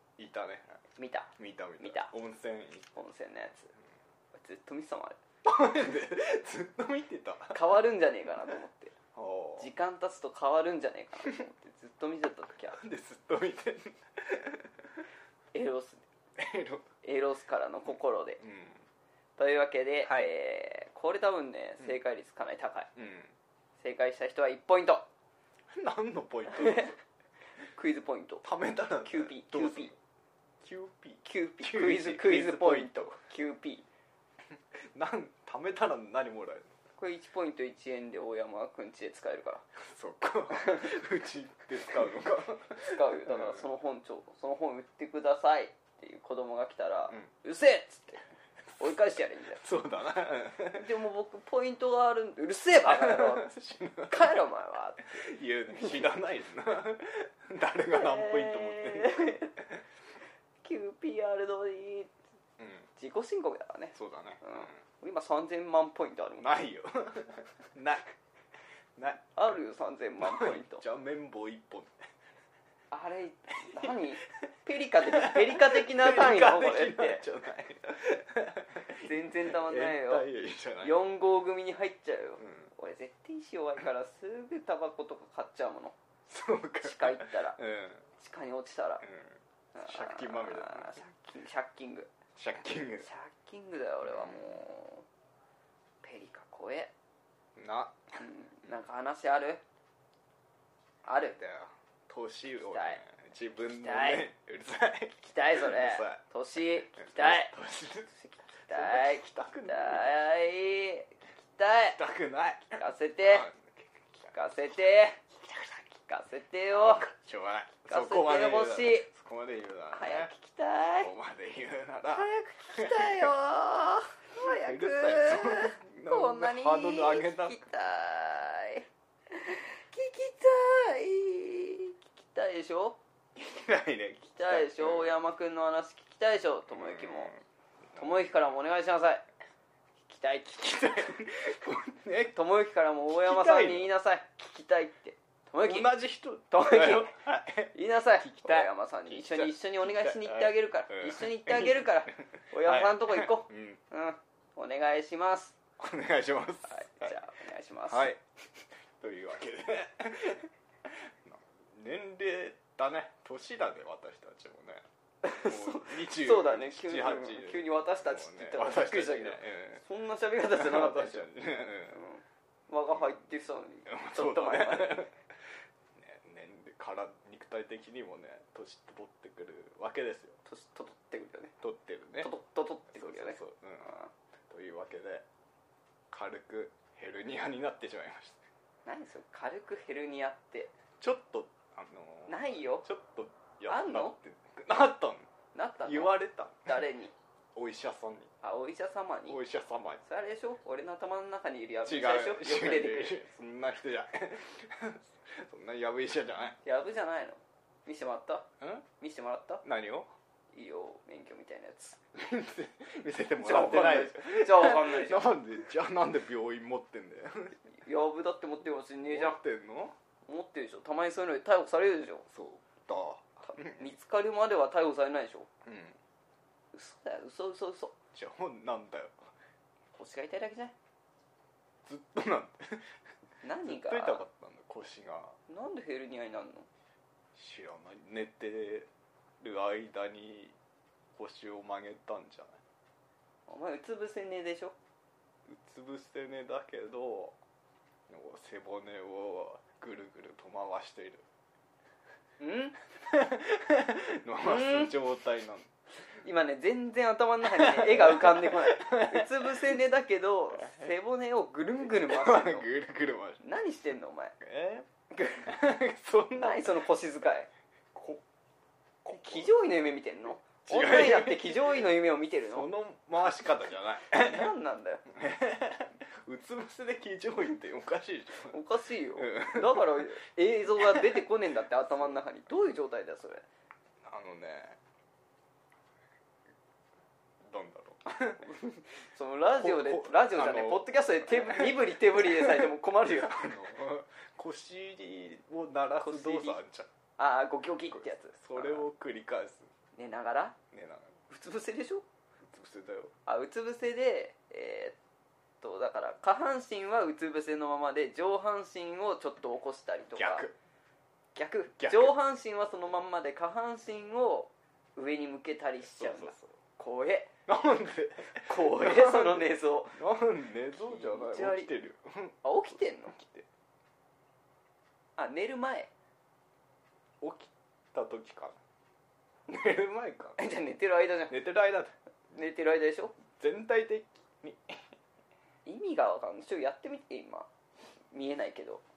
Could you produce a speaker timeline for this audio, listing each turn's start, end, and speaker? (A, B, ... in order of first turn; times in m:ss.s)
0:00.2-0:00.8 A
0:01.0-0:02.1 B
0:01.4-0:02.9 A
0:02.9-0:03.7 B
0:04.3-0:05.2 B
0:05.4-0:07.6 A
0:07.5-0:08.9 B
0:09.1-0:09.7 A
0:09.6-0:12.8 B
0:12.7-0:14.9 A
0:15.5-0:16.0 B
0:16.4-0:16.9 A
0:17.0-0:18.4 B
0:18.4-0:18.8 A
0:19.4-0:22.9 B
0:20.0-0:20.3 A
0:23.0-0:23.3 A
0:23.8-0:25.1 B
0:25.7-0:27.0 A
0:26.5-0:27.0 B
0:27.7-0:28.4 B
0:28.4-0:30.0 A
0:29.0-0:29.9 B
0:30.6-0:33.1 A
0:31.2-0:33.8 B
0:34.8-0:36.7 A
0:37.0-0:39.6 B
0:39.8-0:43.6 A
0:40.5-0:40.9 B
0:42.8-0:48.2 B
0:48.8-0:49.6 B
0:49.5-0:50.9 A
0:50.7-0:53.5 B
0:52.7-0:54.4 A
0:54.1-0:56.0 B
0:55.0-0:59.8 A
0:57.9-0:59.5 B
1:00.6-1:02.1 B
1:02.6-1:02.9 A
1:03.0-1:06.5 B
1:03.9-1:04.7 A
1:06.4-1:08.0 A
1:09.0-1:09.3 A
1:09.4-1:10.8 B
1:10.2-1:12.0 A
1:12.9-1:17.2 B
1:15.0-1:21.0 A
1:18.9-1:20.3 B
1:20.8-1:26.0 B
1:22.4-1:22.7 A
1:26.3-1:28.1 A
1:26.8-1:27.6 B
1:28.2-1:29.0 B
1:29.0-1:31.0 A
1:29.7-1:32.1 B
1:32.4-1:33.1 A
1:33.0-1:35.0 B
1:34.0-1:34.6 A
1:36.0-1:36.9 B
1:37.6-1:38.0 A
1:38.2-1:39.6 B
1:41.0-1:41.4 B
1:41.2-1:46.2 A
1:42.6-1:43.0 B
1:43.6-1:44.2 B
1:45.2-1:47.5 B
1:47.0-1:48.1 A
1:48.1-1:52.0 B
1:48.7-1:50.2 A
1:51.8-1:53.9 A
1:52.7-1:53.5 B
1:54.3-1:55.2 B
1:55.5-1:55.8 A
1:56.1-1:57.0 B
1:56.7-2:00.3 A
1:57.9-1:59.1 B
1:59.9-2:01.1 B
2:01.0-2:03.3 A
2:02.1-2:13.0 B
2:04.4-2:07.6 A
2:13.4-2:15.2 A
2:14.4-2:17.3 B
2:16.7-2:17.4 A
2:18.0-2:19.2 B
2:20.1-2:21.2 B
2:20.6-2:22.4 A
2:22.3-2:25.9 B
2:23.1-2:23.9 A
2:25.6-2:33.8 A
2:26.5-2:27.2 B
2:27.7-2:35.5 B
2:35.8-2:37.2 A
2:36.7-2:38.1 B
2:37.9-2:38.2 A
2:39.0-2:44.8 A
2:45.2-2:51.3 B
2:45.4-2:49.8 A
2:50.5-2:52.0 A
2:51.9-2:55.1 B
2:53.8-2:55.1 A
2:55.9-3:00.4 A
3:00.4-3:01.5 B
3:01.6-3:02.3 A
3:02.2-3:04.1 B
3:02.9-3:03.9 A
3:04.5-3:05.2 A
3:06.1-3:08.4 A
3:08.8-3:10.7 B
3:11.0-3:15.3 A
3:12.3-3:12.8 B
3:13.7-3:14.2 B
3:15.5-3:17.1 B
3:15.8-3:16.7 A
3:17.5-3:18.3 A
3:18.4-3:19.4 B
3:19.3-3:20.0 A
3:20.0-3:23.2 B
3:21.8-3:26.6 A
3:26.6-3:28.5 B
3:28.6-3:28.8 A
3:29.0-3:29.6 B
3:29.6-3:30.1 A
3:30.5-3:32.0 B
3:32.1-3:37.6 A
3:33.4-3:35.3 B
3:37.7-3:39.4 B
3:39.1-3:39.9 A
3:40.2-3:42.2 B
3:42.3-3:43.8 A
3:43.4-3:45.5 B
3:45.6-3:46.0 A
3:46.7-3:47.9 B
3:48.1-3:49.2 A
3:50.0-3:50.7 B
3:51.8-3:52.8 A
3:53.4-3:54.2 B
3:53.6-3:55.4 A
3:55.5-3:56.7 B
3:57.3-3:58.9 A
3:59.4-4:00.6 A
4:01.1-4:02.6 A
4:03.5-4:04.8 B
4:05.4-4:07.4 A
4:08.1-4:11.2 A
4:12.4-4:12.8 B
4:13.0-4:15.7 A
4:14.4-4:14.9 B
4:16.2-4:22.7 B
4:17.4-4:19.8 A
4:21.9-4:23.4 A
4:23.4-4:24.4 B
4:24.4-4:24.9 A
4:25.1-4:25.5 B
4:25.4-4:26.8 A
4:26.3-4:27.5 B
4:27.9-4:28.2 A
4:29.0-4:29.5 A
4:29.1-4:32.7 B
4:30.7-4:31.8 A
4:32.5-4:34.5 A
4:34.1-4:35.0 B
4:35.1-4:38.6 A
4:38.5-4:43.4 B
4:39.2-4:40.1 A
4:40.8-4:41.2 A
4:44.0-4:44.8 A
4:47.4-4:48.5 A
4:48.4-4:53.5 B
4:49.5-4:56.9 A
4:56.0-4:56.6 B
4:57.2-4:58.8 B
4:57.9-4:59.7 A
4:59.9-5:00.6 B
5:00.7-5:01.2 A
5:01.3-5:02.0 B
5:02.4-5:03.1 A
5:03.2-5:05.0 B
5:05.6-5:10.5 B
5:10.1-5:10.5 A
5:11.3-5:17.3 B
5:11.8-5:12.2 A
5:15.9-5:16.5 A
5:17.5-5:22.4 A
5:18.3-5:20.0 B
5:20.7-5:21.7 B
5:22.4-5:23.1 B
5:23.0-5:23.5 A
5:25.2-5:25.9 B
5:27.2-5:28.6 A
5:29.5-5:30.4 A
5:30.4-5:31.4 B
5:31.3-5:31.9 A
5:32.3-5:33.1 B
5:33.4-5:34.8 A
5:35.6-5:37.5 B
5:38.1-5:38.8 B